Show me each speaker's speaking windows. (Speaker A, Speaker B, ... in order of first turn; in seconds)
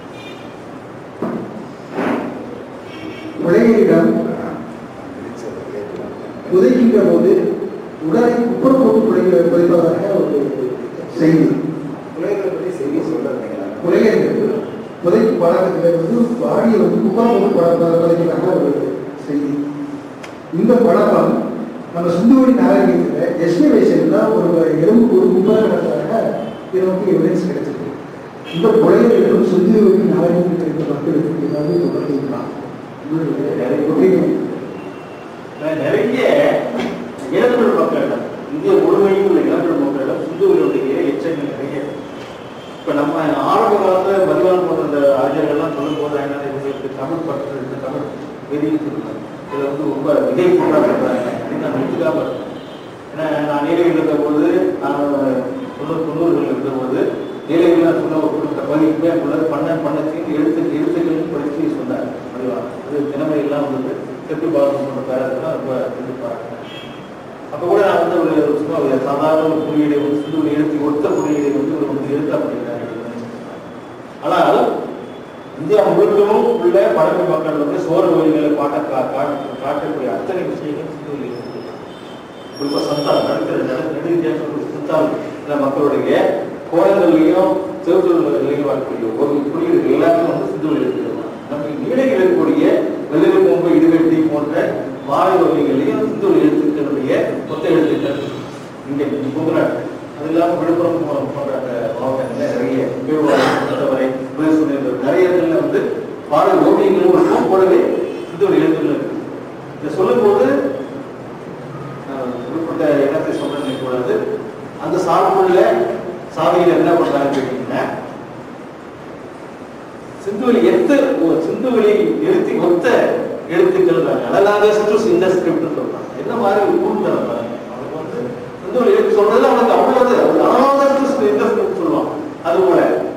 Speaker A: 3.4-4.1, 6.5-7.3, 8.0-11.6, 13.8-19.6, 20.5-21.3, 21.9-26.2, 26.7-27.9, 28.5-32.5, 33.0-34.4
Speaker B: 4.2-6.6, 12.1-14.6
Speaker C: 33.6-33.9, 35.6-36.3, 37.3-41.9, 42.8-52.5, 53.1-66.6, 67.5-73.6, 74.2-74.7, 75.5-81.8, 82.5-109.3, 109.8-110.5, 112.1-114.2, 114.8-115.7, 116.3-117.8, 120.2-123.0, 123.5-132.9